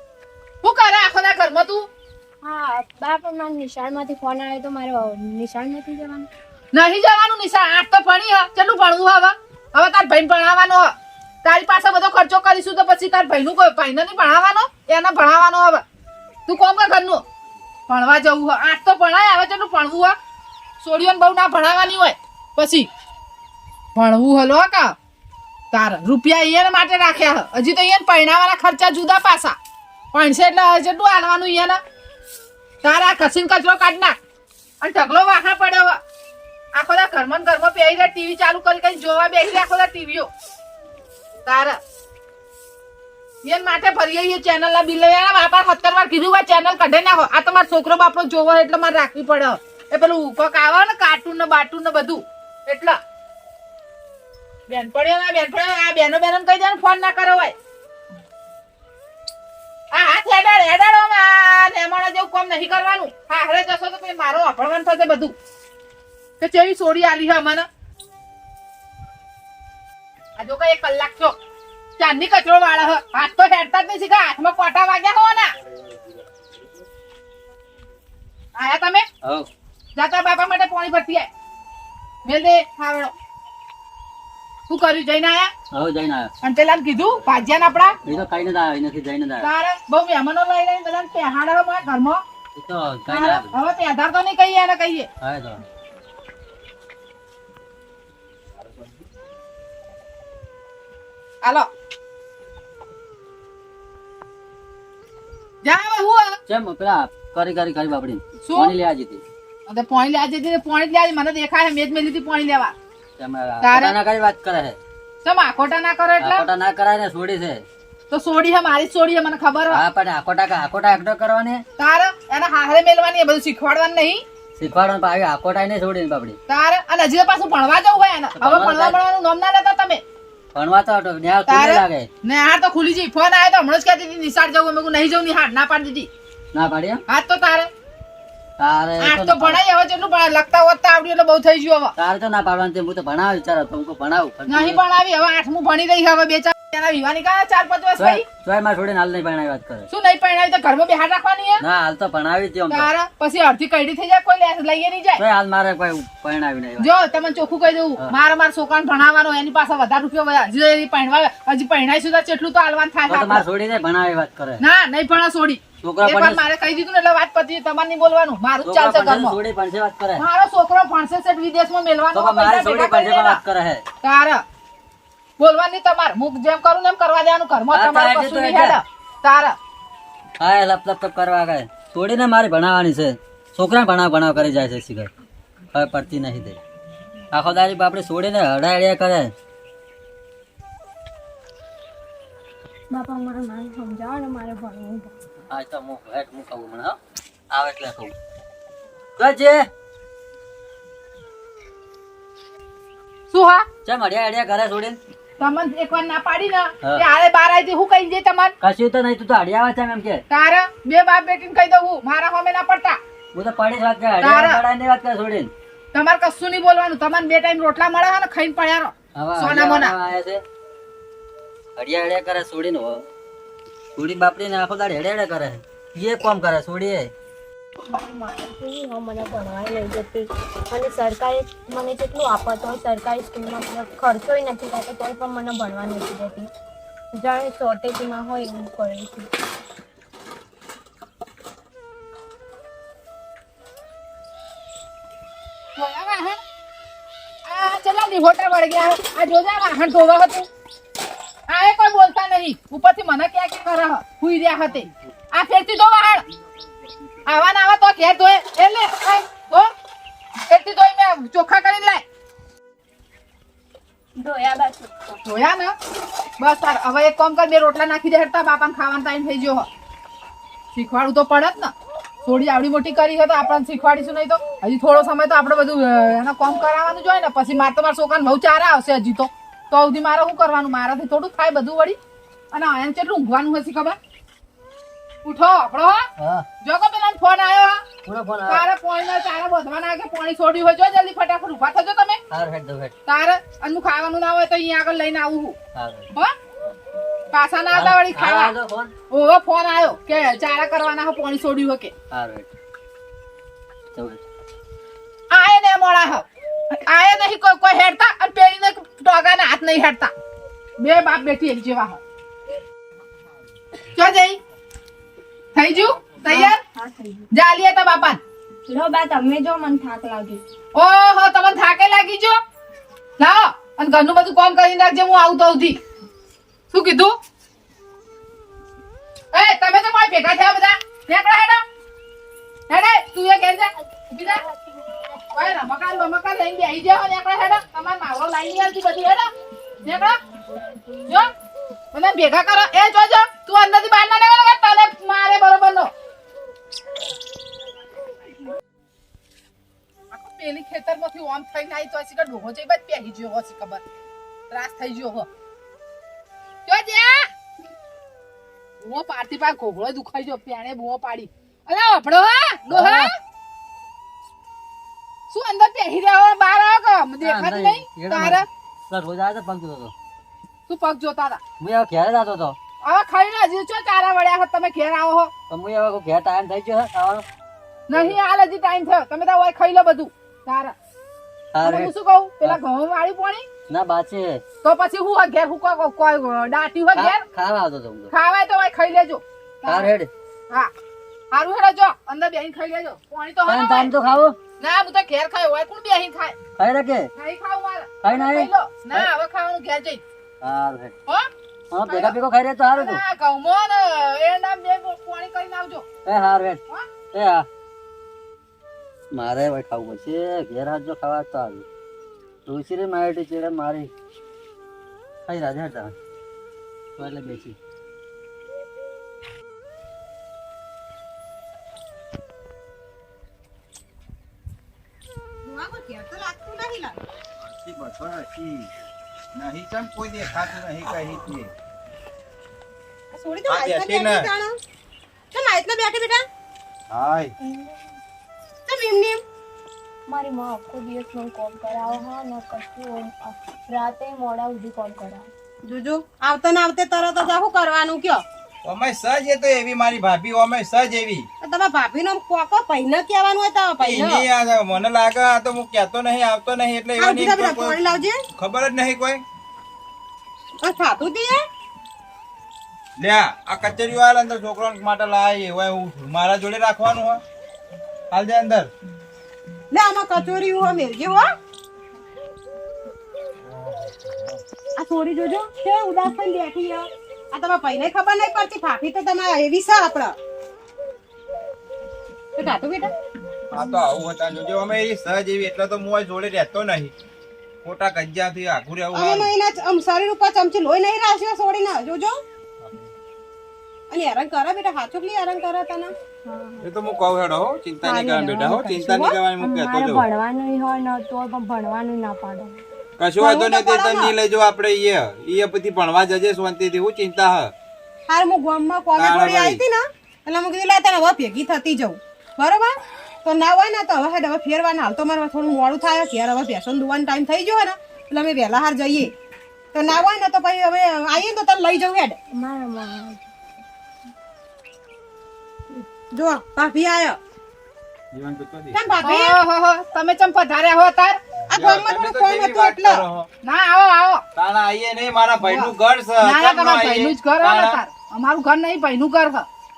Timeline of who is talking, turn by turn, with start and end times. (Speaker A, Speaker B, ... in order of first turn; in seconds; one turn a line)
Speaker A: 0.6-1.9
Speaker B: 2.4-6.3
Speaker A: 6.7-10.9
Speaker A: 11.4-15.8
Speaker A: 16.5-17.2
Speaker A: 17.9-20.1
Speaker A: 20.8-22.9
Speaker A: 23.9-24.9
Speaker A: 25.7-29.6
Speaker A: 30.1-31.8
Speaker A: 32.8-34.2
Speaker A: 34.8-36.0
Speaker A: 36.7-40.3
Speaker A: 41.5-41.8
Speaker A: 43.4-53.0
Speaker A: 54.7-57.5
Speaker A: 59.9-65.3
Speaker A: 66.4-67.7
Speaker A: 70.4-71.3
Speaker A: 72.0-75.5
Speaker A: 78.5-79.1
Speaker C: 79.2-79.5
Speaker A: 80.0-81.3
Speaker A: 82.2-83.1
Speaker A: 84.7-85.5
Speaker C: 85.7-86.3
Speaker A: 86.4-88.0
Speaker C: 88.0-89.5
Speaker A: 89.4-92.2
Speaker C: 92.5-93.5
Speaker A: 93.1-95.1
Speaker C: 95.2-95.6
Speaker A: 101.4-101.7
Speaker A: 105.6-106.4
Speaker C: 106.5-109.2
Speaker A: 108.4-108.7
Speaker A: 109.7-112.7
Speaker C: 113.2-114.8
Speaker A: 113.6-114.0
Speaker A: 115.2-116.5
Speaker C: 116.2-117.6
Speaker A: 118.1-119.8
Speaker C: 119.7-121.6
Speaker A: 121.8-124.2
Speaker C: 124.6-126.4
Speaker A: 126.5-130.0
Speaker C: 128.3-129.0
Speaker C: 130.5-132.1
Speaker A: 131.5-136.1
Speaker C: 136.5-137.0
Speaker A: 137.1-137.7
Speaker C: 138.6-139.6
Speaker A: 139.0-141.9
Speaker C: 142.0-144.8
Speaker A: 144.5-148.2
Speaker C: 148.0-149.9
Speaker A: 149.9-151.6
Speaker C: 151.6-152.9
Speaker A: 152.7-155.2
Speaker C: 155.2-156.9
Speaker A: 156.8-163.4
Speaker C: 163.1-164.6
Speaker A: 164.6-169.4
Speaker C: 165.8-166.4
Speaker C: 168.6-170.2
Speaker A: 170.2-173.4
Speaker C: 172.1-173.8
Speaker A: 174.0-174.4
Speaker A: 175.4-179.6
Speaker C: 177.7-178.8
Speaker C: 180.4-185.1
Speaker C: 185.7-186.6
Speaker C: 187.3-189.3
Speaker B: 192.9-195.1
Speaker C: 195.5-197.0
Speaker C: 197.5-198.1
Speaker C: 199.2-199.7
Speaker A: 203.3-203.7
Speaker C: 203.8-205.0
Speaker A: 205.4-208.5
Speaker C: 208.6-210.2
Speaker A: 210.3-213.0
Speaker C: 213.3-215.5
Speaker A: 214.2-214.6
Speaker A: 215.9-219.9
Speaker C: 219.2-220.4
Speaker C: 221.8-223.0
Speaker C: 223.9-227.1
Speaker B: 227.9-236.5
Speaker B: 237.1-239.3
Speaker A: 245.8-246.4
Speaker A: 247.4-250.5
Speaker A: 251.5-256.2
Speaker A: 257.2-259.7
Speaker A: 260.5-262.0
Speaker B: 264.1-265.1
Speaker A: 265.2-265.7
Speaker A: 266.4-269.7
Speaker A: 270.7-271.7
Speaker A: 272.2-282.0
Speaker A: 282.5-284.0
Speaker A: 285.2-286.1
Speaker C: 286.2-286.4
Speaker A: 286.6-287.8
Speaker C: 288.0-288.6
Speaker A: 288.5-292.2
Speaker C: 292.3-292.9
Speaker A: 293.1-295.6
Speaker C: 295.7-296.1
Speaker A: 297.3-298.5
Speaker C: 297.7-298.9
Speaker A: 299.1-301.9
Speaker C: 302.1-302.5
Speaker C: 303.9-304.2
Speaker A: 305.3-310.1
Speaker A: 310.8-312.0
Speaker A: 313.9-314.4
Speaker A: 315.6-316.6
Speaker B: 316.3-317.2
Speaker A: 317.3-318.2
Speaker B: 318.7-320.4
Speaker A: 320.7-322.4
Speaker A: 323.2-325.8
Speaker A: 326.7-327.1
Speaker A: 329.3-331.6
Speaker A: 332.7-334.4
Speaker A: 335.3-339.3
Speaker A: 339.8-340.2
Speaker A: 341.9-345.9
Speaker A: 350.1-353.8
Speaker A: 354.5-355.3
Speaker A: 356.6-357.3
Speaker A: 358.8-363.1
Speaker C: 362.7-363.1
Speaker A: 365.3-368.4
Speaker C: 367.2-369.9
Speaker A: 370.7-371.4
Speaker C: 371.6-372.6
Speaker A: 372.8-375.3
Speaker C: 375.5-377.2
Speaker A: 377.9-380.8
Speaker C: 381.5-381.9
Speaker A: 381.6-383.4
Speaker C: 383.7-384.4
Speaker A: 384.6-387.2
Speaker C: 386.9-388.1
Speaker A: 388.1-389.9
Speaker C: 389.6-390.1
Speaker A: 391.3-393.9
Speaker C: 393.5-394.4
Speaker A: 394.6-396.4
Speaker C: 396.6-397.1
Speaker A: 397.1-400.0
Speaker C: 398.0-399.1
Speaker C: 400.4-400.9
Speaker C: 401.7-403.0
Speaker A: 401.9-402.1
Speaker A: 402.7-405.9
Speaker C: 406.0-406.6
Speaker C: 407.1-407.5
Speaker C: 409.1-411.6
Speaker C: 412.4-413.9
Speaker C: 415.2-415.9
Speaker C: 417.0-417.6
Speaker D: 425.4-427.0
Speaker E: 427.4-428.7
Speaker E: 429.3-431.5
Speaker D: 433.1-434.6
Speaker E: 433.5-434.3
Speaker D: 435.3-436.2
Speaker E: 436.9-437.3
Speaker B: 437.4-437.8
Speaker D: 438.7-439.2
Speaker B: 440.1-445.3
Speaker D: 445.6-448.2
Speaker E: 448.6-451.2
Speaker D: 451.4-454.2
Speaker E: 453.8-457.8
Speaker D: 457.0-458.2
Speaker E: 458.3-459.2
Speaker D: 460.6-461.4
Speaker E: 463.0-467.2
Speaker E: 468.1-468.7
Speaker D: 469.7-471.3
Speaker E: 473.5-474.4
Speaker D: 474.8-480.1
Speaker D: 482.4-482.9
Speaker E: 483.5-486.9
Speaker E: 487.6-489.3
Speaker D: 488.9-492.2
Speaker D: 493.9-495.9
Speaker B: 496.2-496.6
Speaker E: 496.6-500.1
Speaker B: 497.8-502.6
Speaker D: 498.9-499.2
Speaker E: 503.0-507.5
Speaker D: 503.2-504.1
Speaker D: 508.1-519.1
Speaker E: 509.0-509.6
Speaker D: 519.7-522.2
Speaker B: 522.3-523.2
Speaker D: 526.1-527.2
Speaker E: 528.1-528.8
Speaker D: 528.7-529.4
Speaker A: 529.0-531.2
Speaker D: 531.5-533.0
Speaker E: 531.5-533.3
Speaker A: 533.4-534.2
Speaker E: 534.4-537.8
Speaker A: 535.4-539.5